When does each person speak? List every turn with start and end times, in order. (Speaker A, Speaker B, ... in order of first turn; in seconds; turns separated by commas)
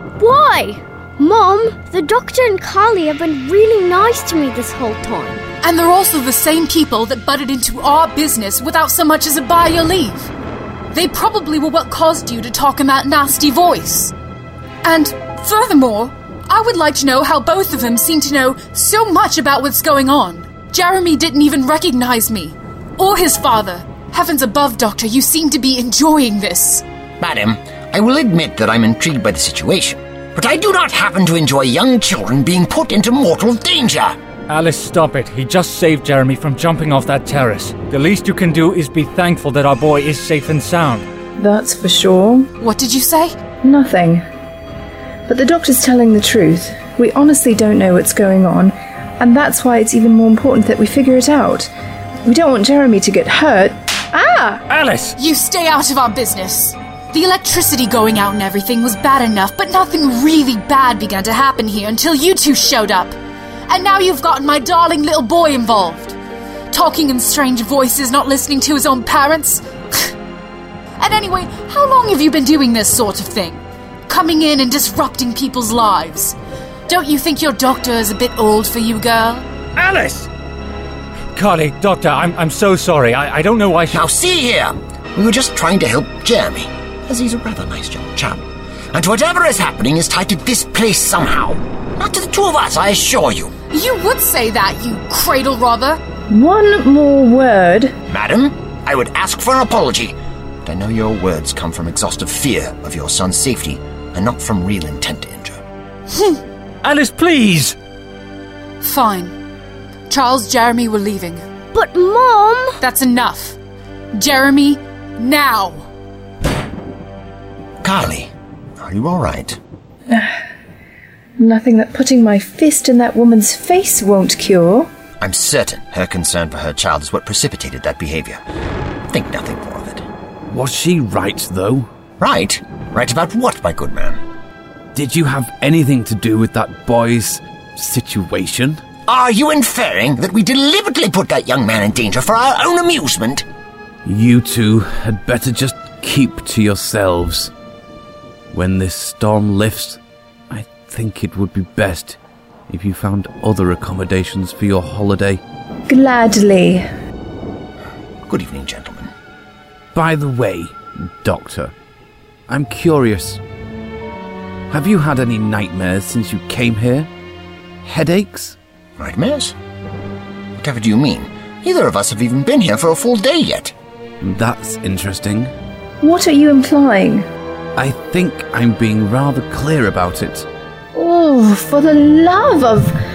Speaker A: 0.2-5.4, Speaker B: 5.6-10.3, Speaker B: 10.9-14.1, Speaker B: 14.8-26.8, Speaker C: 27.2-34.2, Speaker D: 34.5-41.1, Speaker E: 41.4-42.5, Speaker B: 42.6-43.4, Speaker E: 43.6-44.2, Speaker E: 45.3-51.7, Speaker E: 52.2-54.6, Speaker D: 54.7-55.2, Speaker B: 55.2-63.1, Speaker B: 63.7-66.2, Speaker B: 66.7-70.1, Speaker B: 71.0-76.4, Speaker B: 76.9-79.5, Speaker D: 79.8-80.3, Speaker D: 81.3-84.1, Speaker C: 83.9-93.5, Speaker B: 93.7-96.0, Speaker E: 96.3-98.0, Speaker C: 98.1-105.6, Speaker D: 106.8-107.8, Speaker B: 108.8-109.3, Speaker B: 110.1-111.4, Speaker A: 111.7-112.8, Speaker B: 112.8-113.6, Speaker B: 114.1-115.9, Speaker C: 117.8-119.6, Speaker E: 120.1-120.3, Speaker E: 121.4-124.9, Speaker C: 125.2-128.4, Speaker C: 129.1-130.0, Speaker F: 130.5-131.9, Speaker C: 132.2-134.2, Speaker F: 134.9-138.8, Speaker C: 139.1-143.5, Speaker F: 144.1-147.5, Speaker F: 148.5-155.4, Speaker E: 155.9-156.9, Speaker C: 158.3-159.1, Speaker F: 159.9-161.7, Speaker F: 162.5-163.4, Speaker F: 164.7-167.1, Speaker F: 167.8-168.6, Speaker C: 169.0-169.6, Speaker C: 170.6-173.7, Speaker F: 174.2-175.5, Speaker E: 176.0-177.3, Speaker F: 177.8-180.5, Speaker E: 180.9-183.0